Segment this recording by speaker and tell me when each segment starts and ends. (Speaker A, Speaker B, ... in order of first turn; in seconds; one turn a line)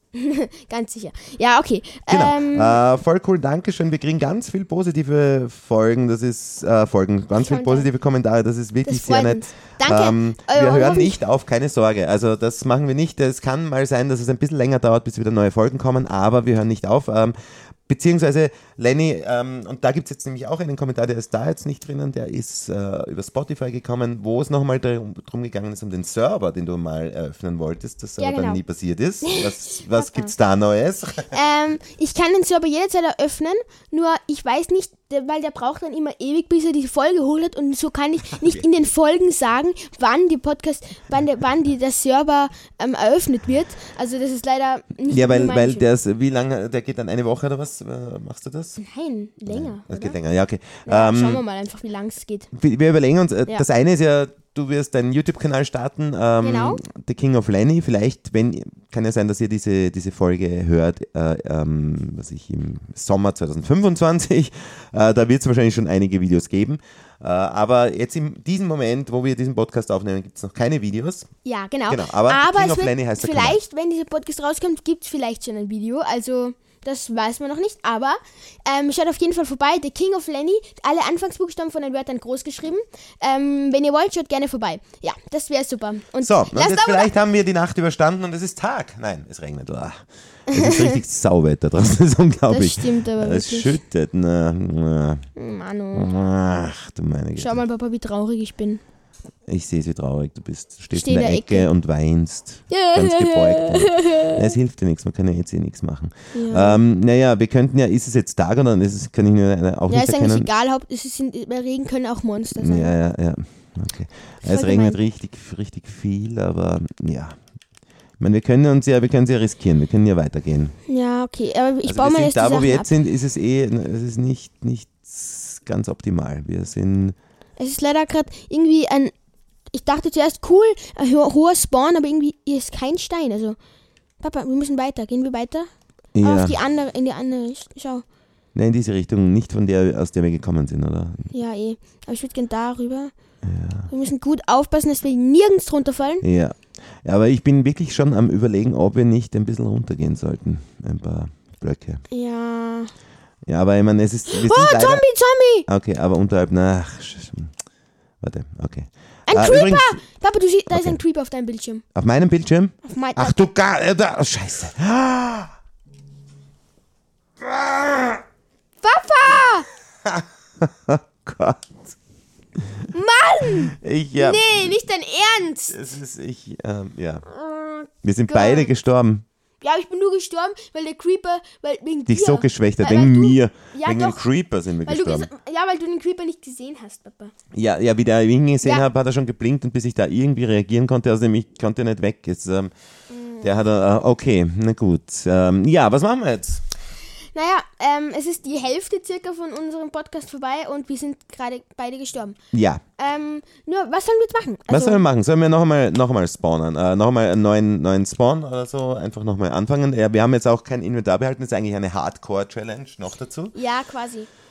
Speaker A: 0.1-2.8
Speaker B: 2.1-31.4
Speaker A: 7.4-7.9
Speaker A: 8.9-11.2
Speaker A: 28.2-28.6
Speaker A: 29.2-30.3
Speaker A: 31.3-45.9
Speaker B: 45.1-48.8
Speaker A: 48.8-50.2
Speaker B: 49.5-51.4
Speaker A: 50.9-52.5
Speaker B: 52.5-71.3
Speaker A: 56.4-56.8
Speaker A: 71.5-87.1
Speaker B: 71.9-73.6
Speaker B: 86.2-95.3
Speaker A: 90.5-91.0
Speaker A: 92.5-93.8
Speaker A: 95.4-96.1
Speaker B: 95.9-97.6
Speaker A: 97.4-98.8
Speaker B: 99.5-110.5
Speaker A: 100.9-101.7
Speaker A: 102.7-104.5
Speaker A: 106.3-106.8
Speaker A: 109.9-113.0
Speaker B: 112.6-117.4
Speaker A: 114.4-115.0
Speaker B: 118.2-120.8
Speaker A: 120.9-122.9
Speaker B: 121.8-127.2
Speaker A: 127.6-129.1
Speaker A: 129.7-133.6
Speaker A: 134.2-135.7
Speaker B: 136.2-136.6
Speaker A: 136.2-138.0
Speaker B: 138.5-141.3
Speaker A: 141.3-143.1
Speaker B: 143.4-143.9
Speaker A: 143.9-146.2
Speaker B: 146.2-152.0
Speaker A: 152.1-152.9
Speaker B: 153.5-155.1
Speaker A: 154.3-155.7
Speaker B: 155.7-157.5
Speaker B: 158.2-160.0
Speaker A: 159.3-161.8
Speaker B: 160.7-161.0
Speaker B: 161.9-165.5
Speaker A: 162.8-163.4
Speaker B: 167.4-168.2
Speaker A: 168.8-169.7
Speaker B: 170.1-171.9
Speaker A: 172.9-175.8
Speaker B: 173.7-174.8
Speaker B: 175.7-177.2
Speaker A: 177.3-178.7
Speaker B: 178.0-179.2
Speaker A: 179.6-184.3
Speaker B: 182.1-185.3
Speaker A: 184.8-187.3
Speaker B: 187.5-192.7
Speaker A: 193.1-193.5
Speaker B: 193.4-196.6
Speaker A: 197.3-202.4
Speaker B: 202.5-202.8
Speaker A: 203.0-205.0
Speaker B: 204.7-213.6
Speaker A: 213.5-214.3